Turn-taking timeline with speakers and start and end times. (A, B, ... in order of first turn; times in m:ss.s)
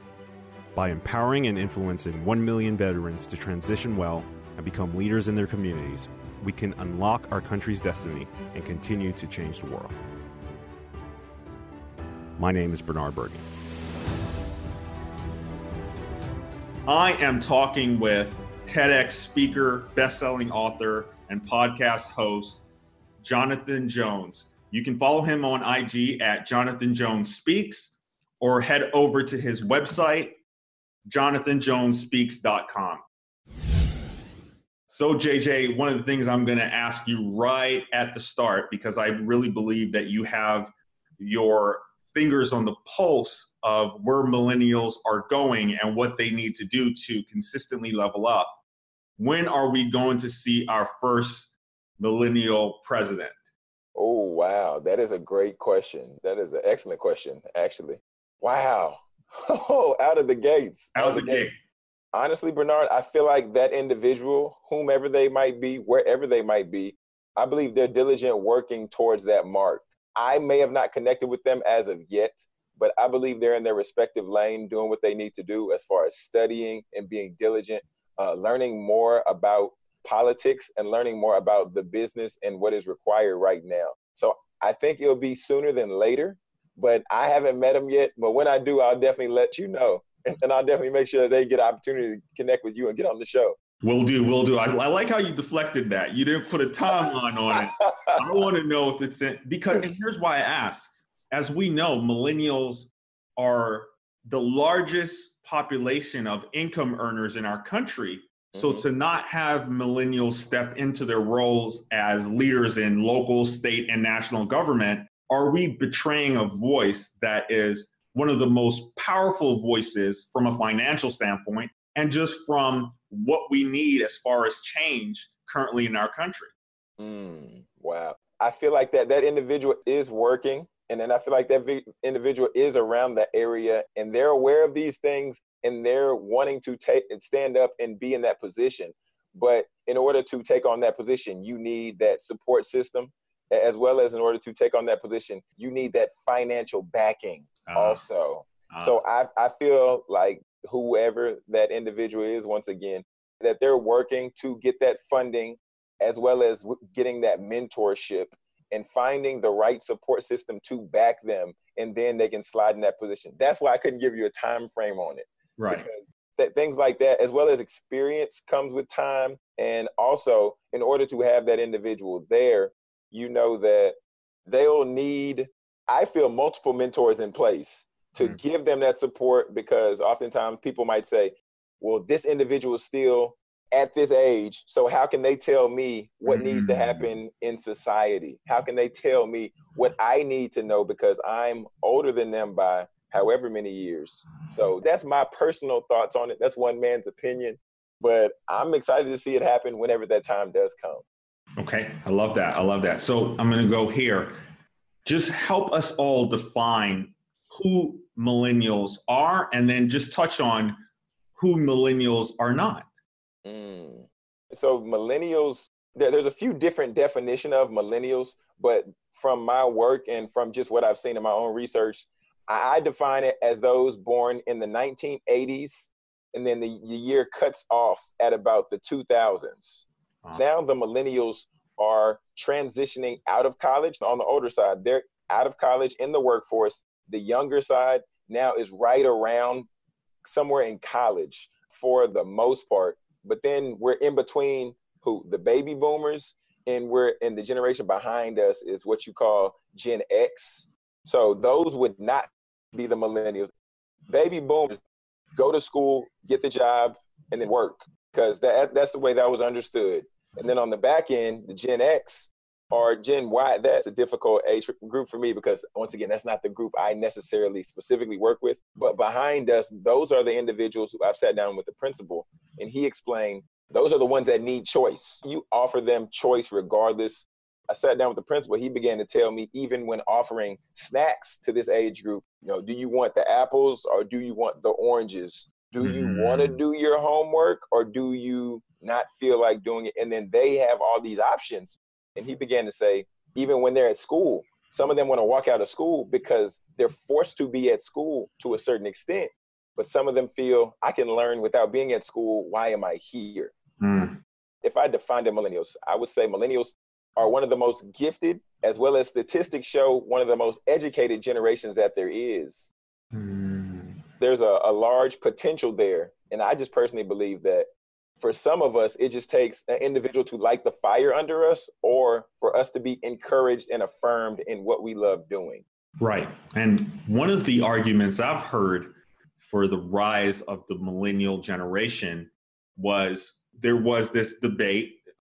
0:00.7-0:09.9 A
0:12.4-0:13.4 A
0:16.8-0:22.6 A
0:23.2-0:30.4 A
0:31.0-0:33.0 A
0:34.9-0:48.6 A
0:49.2-0:53.4 A
0:53.9-1:01.5 B
1:00.9-1:01.6 A
1:02.1-1:33.6 B
1:33.8-2:06.5 A
1:37.0-1:38.4 B
1:48.5-1:48.8 B
2:07.0-3:21.0 B
2:27.7-2:28.0 A
2:28.7-2:29.0 A
2:45.6-2:45.8 A
3:06.2-3:07.1 A
3:21.6-3:24.3 A
3:25.0-3:30.7 A
3:31.4-3:32.9 A
3:33.4-3:59.7 B
4:00.2-4:13.5 B
4:14.1-4:14.8 B
4:15.4-5:03.5 B
4:45.8-4:46.6 A
5:03.8-5:04.2 A
5:04.6-5:12.7 B
5:13.1-5:14.0 A
5:14.2-5:17.7 B
5:18.2-5:25.6 B
5:26.0-5:35.0 A